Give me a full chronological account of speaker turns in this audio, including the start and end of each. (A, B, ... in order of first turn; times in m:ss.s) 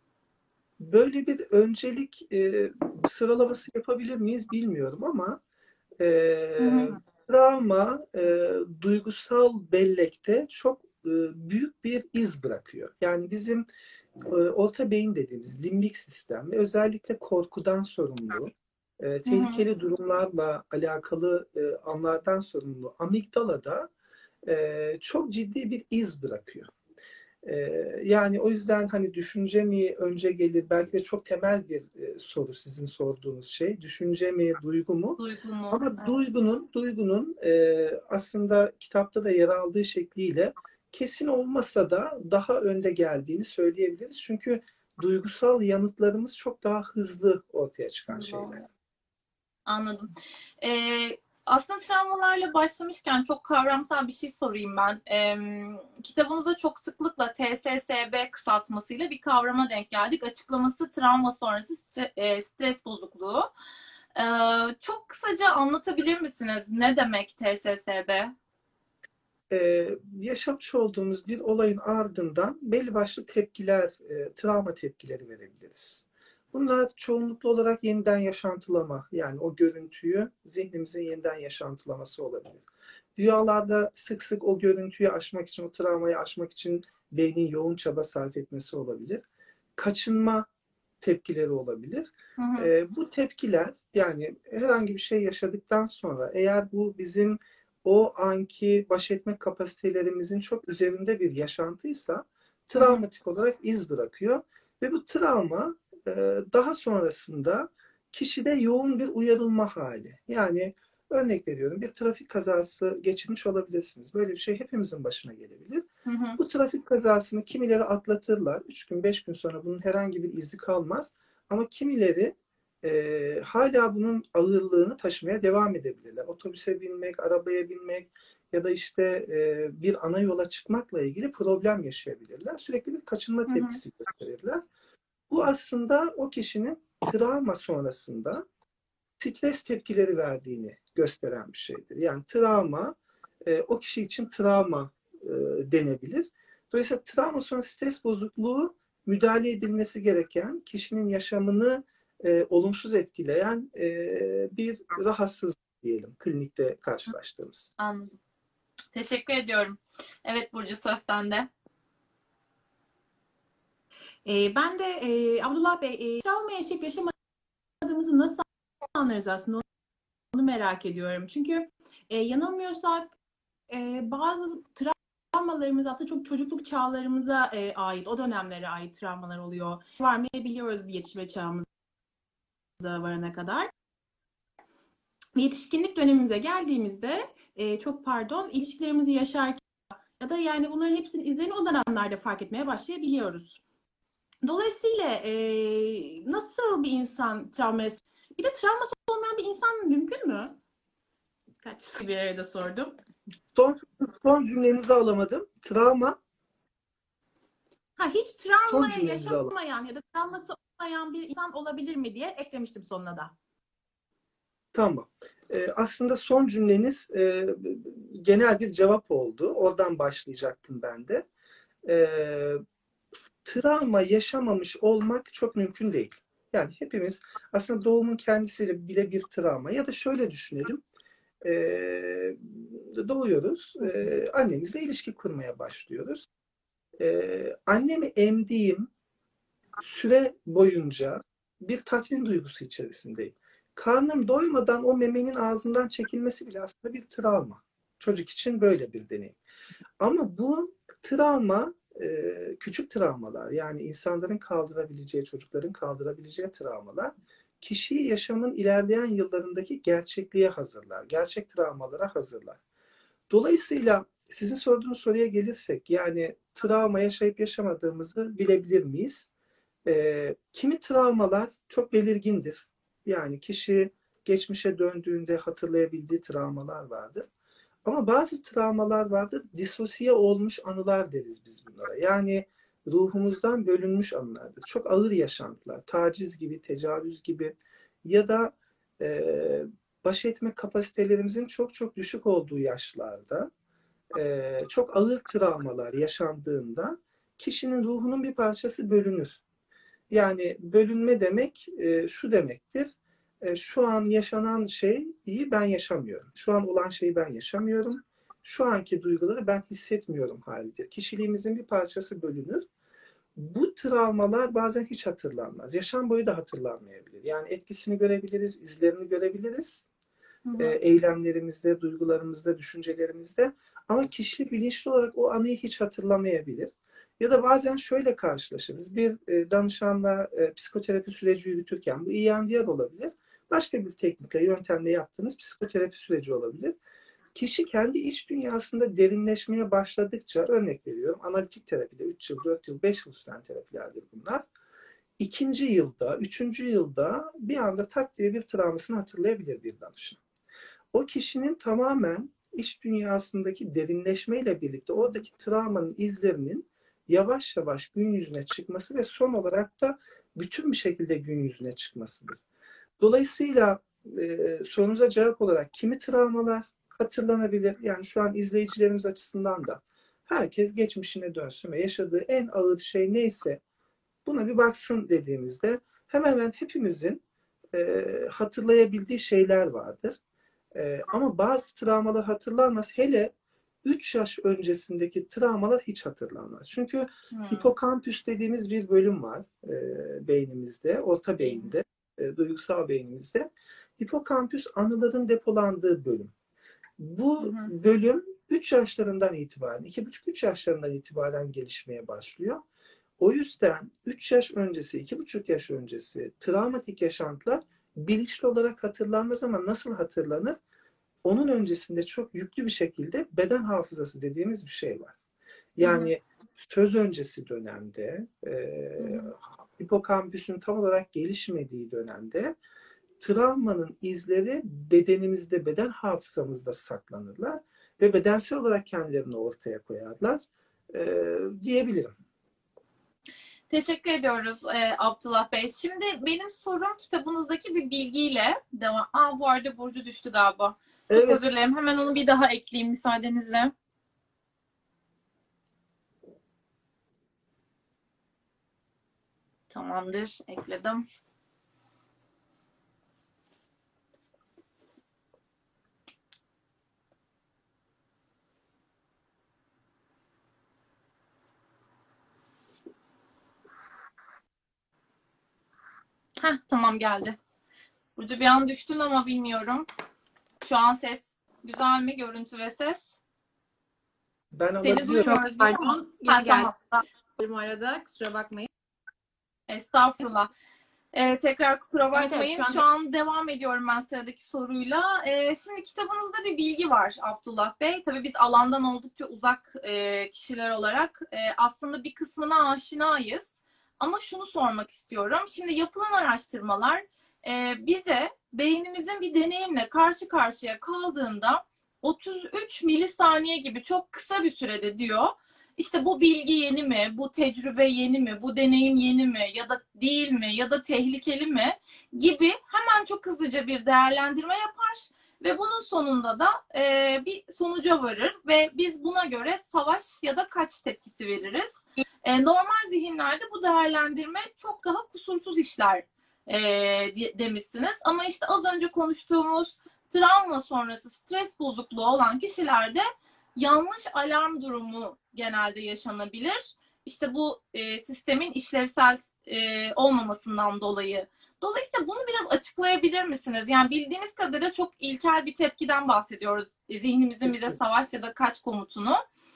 0:00.8-0:05.4 A
0:06.0-0:13.6 A
0:06.6-0:07.0 B
0:14.2-0:23.9 A
0:19.2-0:19.6 C
0:24.4-0:26.7 A
0:27.4-0:35.2 A
0:35.2-0:36.2 C
0:35.7-0:48.6 A
0:48.1-0:48.6 C
0:49.6-0:50.1 C
0:50.6-1:03.5 C
1:04.1-1:08.3 C
1:09.5-1:29.2 A
1:29.8-1:30.5 A
1:31.0-1:55.8 A
1:32.4-1:32.7 B
1:56.0-1:56.4 C
1:56.4-2:14.6 A
2:13.5-2:13.8 C
2:15.3-2:18.4 A
2:19.2-2:37.7 A
2:37.8-2:38.2 C
2:38.9-2:41.5 C
2:44.2-2:47.2 B
2:47.8-2:49.6 B
2:50.3-2:53.1 B
2:53.7-3:01.7 B
3:02.8-3:03.7 B
3:05.3-3:09.6 B
3:10.2-3:13.6 B
3:14.4-3:20.6 B
3:21.6-3:23.0 B
3:23.5-3:26.2 A
3:28.0-3:33.4 B
3:28.7-3:29.5 A
3:34.7-3:41.3 A
3:41.8-3:42.6 A
3:43.4-3:50.8 A
3:51.4-3:56.2 A
3:57.0-3:58.9 A
3:59.8-4:09.4 A
4:10.0-4:22.6 A
4:23.3-4:29.3 A
4:29.8-4:37.3 A
4:37.8-4:53.5 A
4:54.1-4:59.4 A
5:00.1-5:12.6 A
5:13.4-5:19.8 A
5:20.5-5:20.7 C
5:20.6-5:36.8 A
5:37.3-5:44.4 A
5:45.2-5:50.2 A
5:50.9-6:02.4 A
6:03.0-6:13.6 A
6:14.2-6:17.2 A
6:17.7-6:20.2 A
6:20.7-6:23.3 A
6:23.8-6:36.3 A
6:27.3-6:27.7 C
6:37.0-6:42.6 A
6:37.4-6:37.7 C
6:43.2-6:50.6 A
6:51.2-6:55.2 A
6:55.8-7:02.6 A
6:55.8-6:56.1 C
7:03.2-7:12.1 A
7:13.7-7:23.7 C
7:21.1-7:21.5 A
7:29.7-7:31.0 C
7:46.4-7:47.4 C
7:48.2-7:49.8 C
7:50.6-7:53.1 C
7:54.5-7:55.4 A
7:54.8-7:57.0 C
7:55.2-7:56.8 B
7:57.4-7:58.7 B
7:59.7-8:00.5 C
8:01.1-8:53.0 C
8:02.1-8:02.8 B
8:53.6-9:09.2 C
9:07.4-9:07.8 A